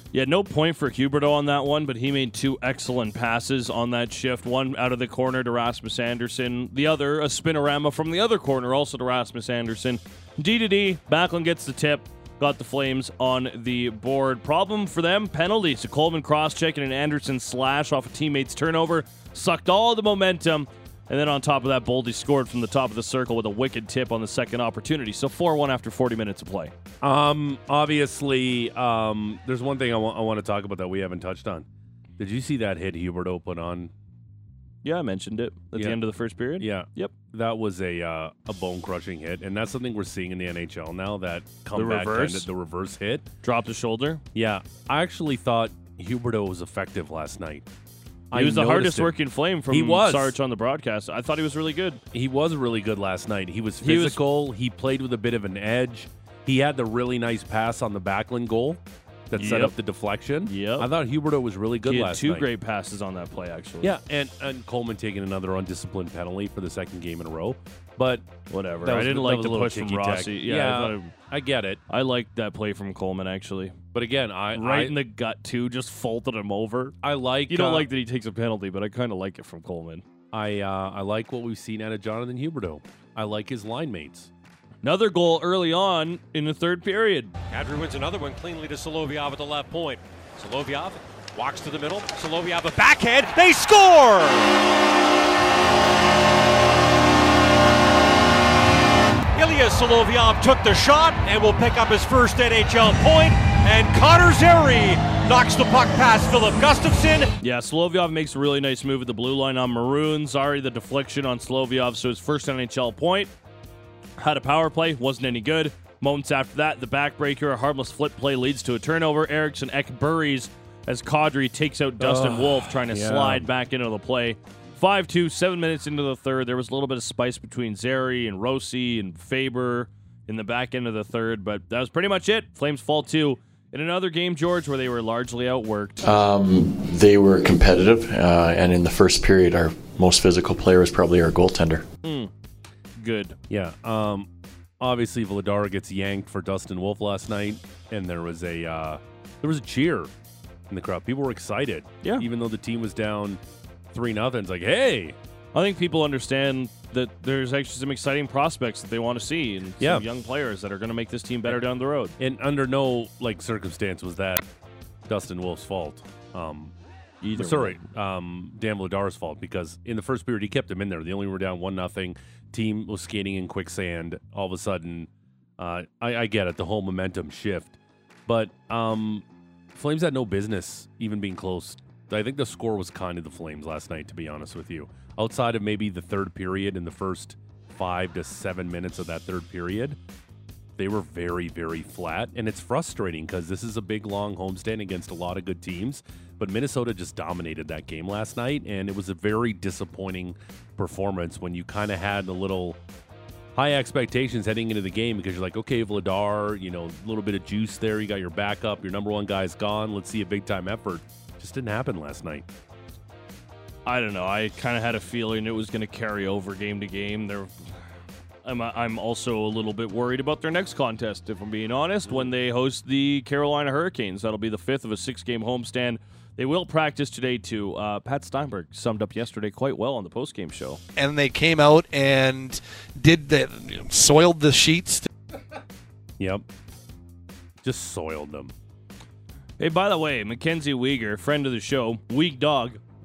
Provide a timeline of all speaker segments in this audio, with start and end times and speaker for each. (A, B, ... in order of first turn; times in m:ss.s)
0:00.1-0:26.7 A
0:27.0-0:31.6 B
0:32.2-0:33.9 B
0:34.8-0:37.1 A
0:35.7-0:36.0 B
0:36.6-0:43.2 B
0:41.7-0:42.5 A
0:43.4-0:44.2 A
0:44.3-0:47.6 B
0:48.3-0:49.2 B
0:48.3-0:52.0 A
0:49.7-0:50.4 B
0:52.1-1:02.5 B
0:53.8-0:54.2 A
0:59.3-0:59.7 A
1:00.4-1:00.9 A
1:01.8-1:04.0 A
1:03.8-1:08.2 B
1:08.5-1:11.1 A
1:08.8-1:11.8 B
1:11.9-1:13.8 A
1:13.9-1:15.0 B
1:14.5-1:17.0 A
1:17.0-1:17.9 B
1:17.5-1:20.0 A
1:20.3-1:24.3 B
1:24.8-1:27.3 A
1:27.5-1:34.5 C
1:39.3-1:47.3 C
1:47.4-1:53.3 A
1:54.2-2:16.0 A
2:02.0-2:03.5 B
2:16.0-2:21.8 D
2:22.0-2:22.3 A
2:23.0-2:23.4 A
2:23.5-2:24.3 B
2:24.8-2:30.1 B
2:30.7-2:33.4 B
2:33.9-2:35.2 B
2:35.5-2:42.1 A
2:39.8-2:40.0 B
2:42.2-2:44.4 B
2:45.1-2:46.7 B
2:47.2-2:47.8 A
2:47.3-2:57.8 B
2:58.3-3:10.0 B
3:10.8-3:22.8 B
3:23.5-3:32.4 B
3:33.8-3:37.5 A
3:38.4-3:50.8 A
3:51.0-3:55.1 E
3:56.2-3:56.4 B
3:57.6-3:58.5 B
3:59.6-4:02.8 A